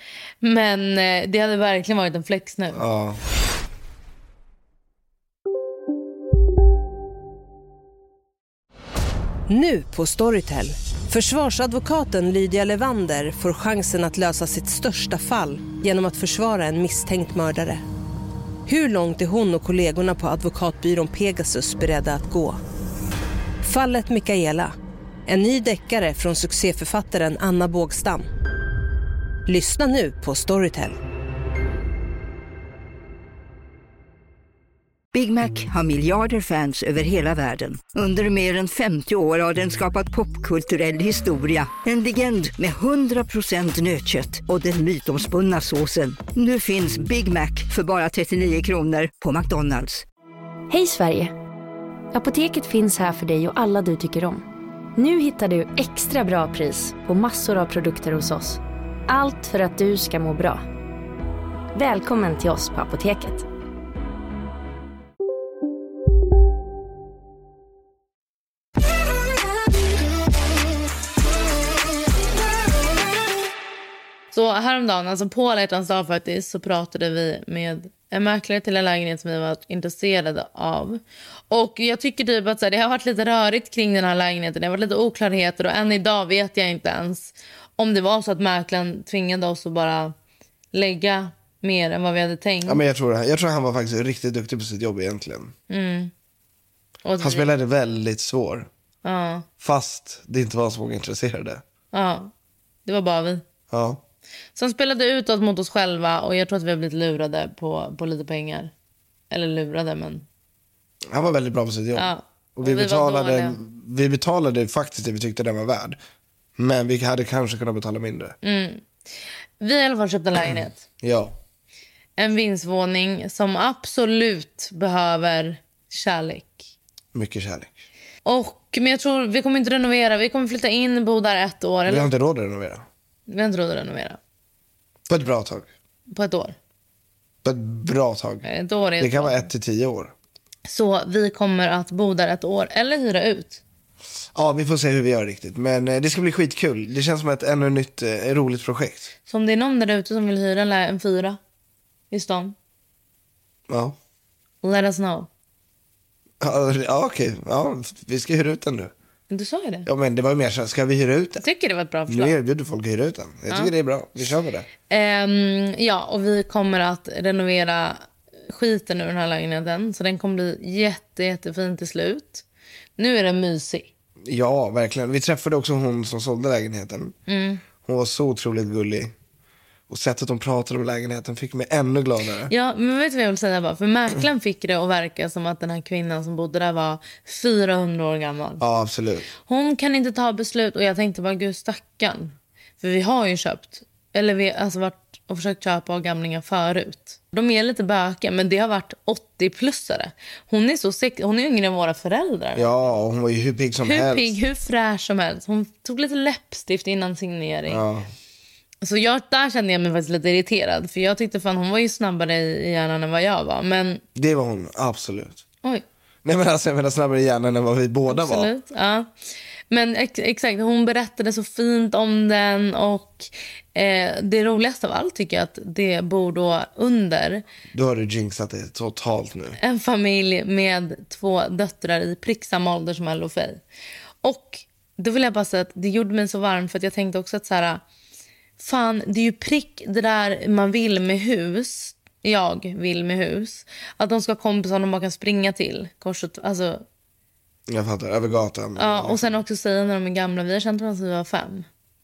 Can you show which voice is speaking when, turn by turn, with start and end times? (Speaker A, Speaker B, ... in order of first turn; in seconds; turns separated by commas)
Speaker A: 0.4-2.8, Speaker B: 2.7-3.2, Speaker C: 9.5-17.8, Speaker C: 18.6-22.6, Speaker C: 23.6-24.7, Speaker C: 25.3-28.3, Speaker C: 29.4-31.0, Speaker D: 35.1-50.0, Speaker E: 50.7-51.3, Speaker E: 52.1-54.4, Speaker E: 55.0-60.6, Speaker E: 61.7-63.4, Speaker A: 74.3-90.1, Speaker A: 90.7-92.8, Speaker B: 92.6-95.5, Speaker A: 95.7-96.1, Speaker A: 97.0-97.5, Speaker B: 97.2-98.7, Speaker A: 99.0-99.5, Speaker B: 99.6-101.6, Speaker A: 101.9-102.3, Speaker A: 102.8-103.4, Speaker B: 103.7-104.0, Speaker A: 104.5-108.7, Speaker A: 109.3-110.2, Speaker B: 111.1-116.0, Speaker A: 111.9-113.6, Speaker B: 116.6-118.3, Speaker A: 118.4-118.8, Speaker A: 119.6-120.8, Speaker B: 121.0-121.3, Speaker A: 122.2-126.7, Speaker B: 127.1-127.7, Speaker A: 128.2-132.1, Speaker B: 131.8-132.8, Speaker A: 133.3-134.2, Speaker B: 135.1-135.7, Speaker A: 136.1-136.6, Speaker B: 137.4-138.4, Speaker A: 138.4-139.5, Speaker B: 139.0-140.1, Speaker A: 140.7-143.6, Speaker B: 144.3-149.1, Speaker A: 149.3-151.4, Speaker A: 152.1-152.5, Speaker B: 153.7-154.0, Speaker A: 154.6-155.3, Speaker B: 156.4-158.9, Speaker A: 159.3-159.9, Speaker B: 159.8-161.4, Speaker A: 161.4-162.3, Speaker B: 162.1-164.7, Speaker A: 164.9-172.4, Speaker A: 173.0-173.9, Speaker B: 174.2-177.1, Speaker A: 177.3-177.6, Speaker B: 177.8-179.1, Speaker B: 179.9-182.5, Speaker A: 182.5-188.6, Speaker B: 188.6-189.3, Speaker A: 189.4-202.7, Speaker B: 202.5-204.3, Speaker A: 203.8-207.8, Speaker B: 207.7-208.1, Speaker A: 208.8-214.0, Speaker B: 214.2-215.4, Speaker B: 216.2-218.5, Speaker A: 218.1-219.1, Speaker A: 219.7-227.4, Speaker B: 227.7-229.6, Speaker A: 229.6-233.6, Speaker A: 234.2-237.8, Speaker A: 238.6-246.8, Speaker B: 247.7-249.4, Speaker A: 248.8-251.7